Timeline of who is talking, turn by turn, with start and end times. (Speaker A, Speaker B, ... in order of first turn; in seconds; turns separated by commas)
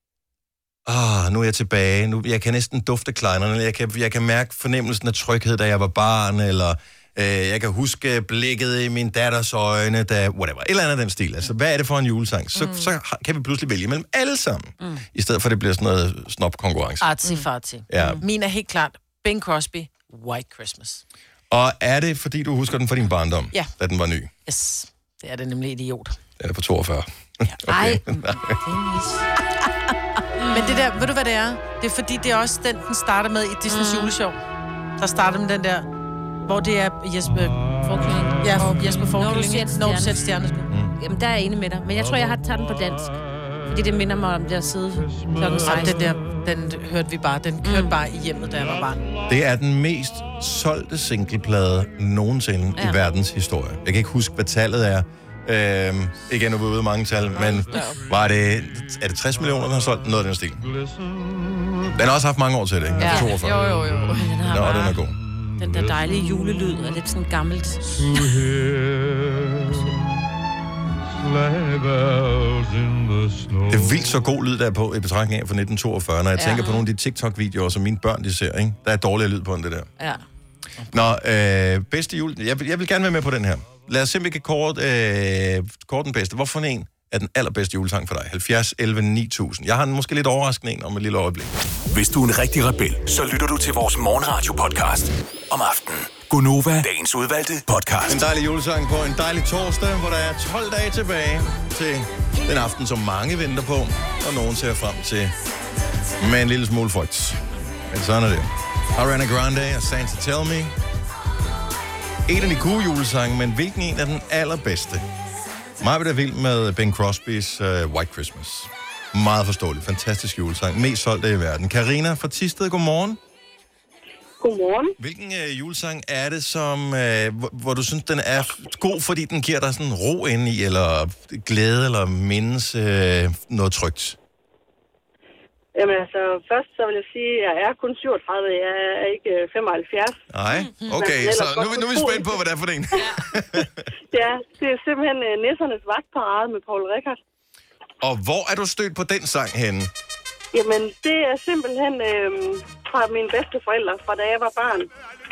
Speaker A: 0.9-17.1, Speaker B: 12.6-12.9, Speaker C: 17.0-21.0, Speaker A: 17.9-18.2, Speaker D: 17.9-18.2, Speaker A: 21.5-24.3, Speaker C: 24.5-26.2, Speaker A: 26.4-28.6, Speaker D: 27.7-29.3, Speaker D: 30.4-30.8, Speaker C: 30.5-34.4, Speaker D: 33.7-34.2, Speaker C: 35.0-35.9, Speaker C: 36.5-37.7, Speaker D: 37.8-46.1, Speaker C: 38.4-40.7, Speaker C: 45.6-49.1, Speaker D: 47.6-48.0, Speaker A: 49.3-60.7, Speaker D: 52.8-53.0, Speaker B: 57.4-58.0, Speaker A: 61.9-63.7, Speaker B: 63.0-64.3, Speaker D: 64.1-65.0, Speaker A: 64.5-65.2, Speaker D: 65.6-68.2, Speaker D: 69.6-70.0, Speaker A: 73.7-79.9, Speaker B: 76.4-76.7, Speaker D: 76.5-76.9, Speaker A: 80.9-91.5, Speaker E: 91.9-98.2, Speaker A: 98.1-105.3, Speaker A: 106.2-110.7, Speaker A: 112.3-115.0, Speaker A: 115.8-123.2, Speaker F: 124.4-125.0, Speaker A: 125.0-134.2, Speaker F: 135.7-140.2, Speaker A: 140.3-143.8, Speaker C: 140.8-141.1, Speaker F: 140.9-142.4, Speaker F: 144.1-147.2, Speaker A: 148.0-149.9, Speaker F: 150.5-154.9